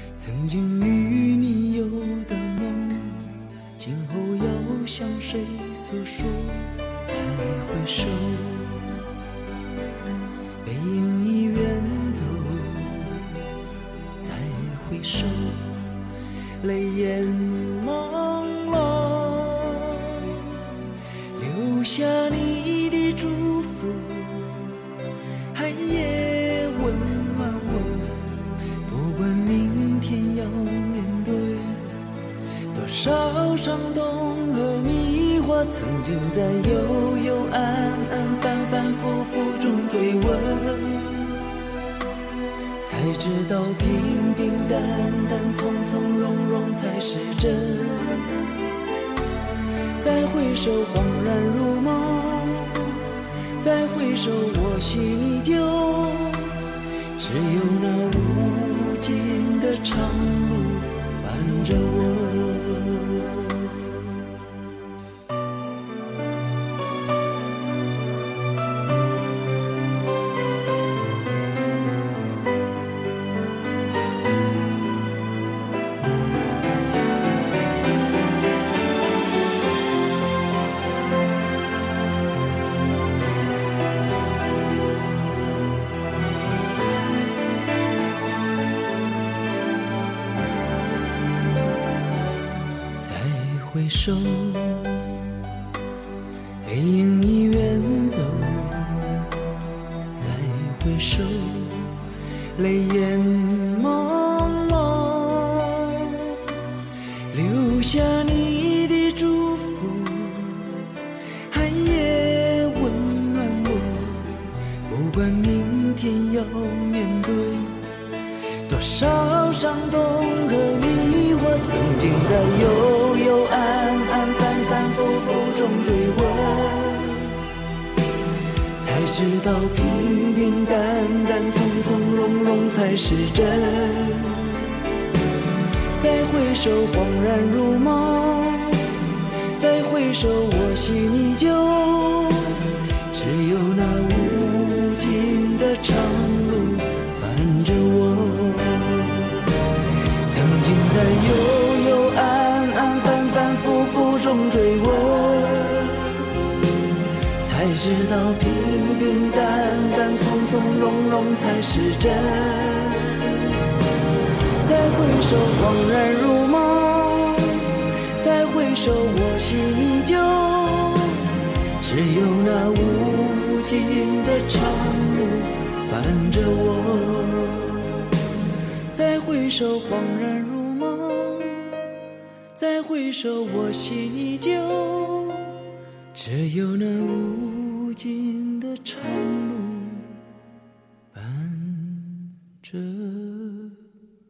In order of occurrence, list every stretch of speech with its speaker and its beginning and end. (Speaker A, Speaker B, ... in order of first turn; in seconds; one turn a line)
Speaker A: 0.2-8.8
Speaker A: 10.6-13.3
Speaker A: 14.2-15.9
Speaker A: 16.6-20.6
Speaker A: 21.4-24.7
Speaker A: 25.5-31.9
Speaker A: 32.7-41.4
Speaker A: 42.8-48.3
Speaker A: 50.0-53.0
Speaker A: 53.6-56.5
Speaker A: 57.1-63.8
Speaker A: 93.0-95.2
Speaker A: 96.6-99.3
Speaker A: 100.2-102.0
Speaker A: 102.5-106.4
Speaker A: 107.3-110.8
Speaker A: 111.5-117.8
Speaker A: 118.7-127.4
Speaker A: 128.8-134.6
Speaker A: 136.0-138.9
Speaker A: 139.5-149.2
Speaker A: 150.2-156.2
Speaker A: 157.4-163.4
Speaker A: 164.6-171.2
Speaker A: 171.8-177.9
Speaker A: 178.9-181.8
Speaker A: 182.5-185.6
Speaker A: 186.1-190.2
Speaker A: 191.1-193.8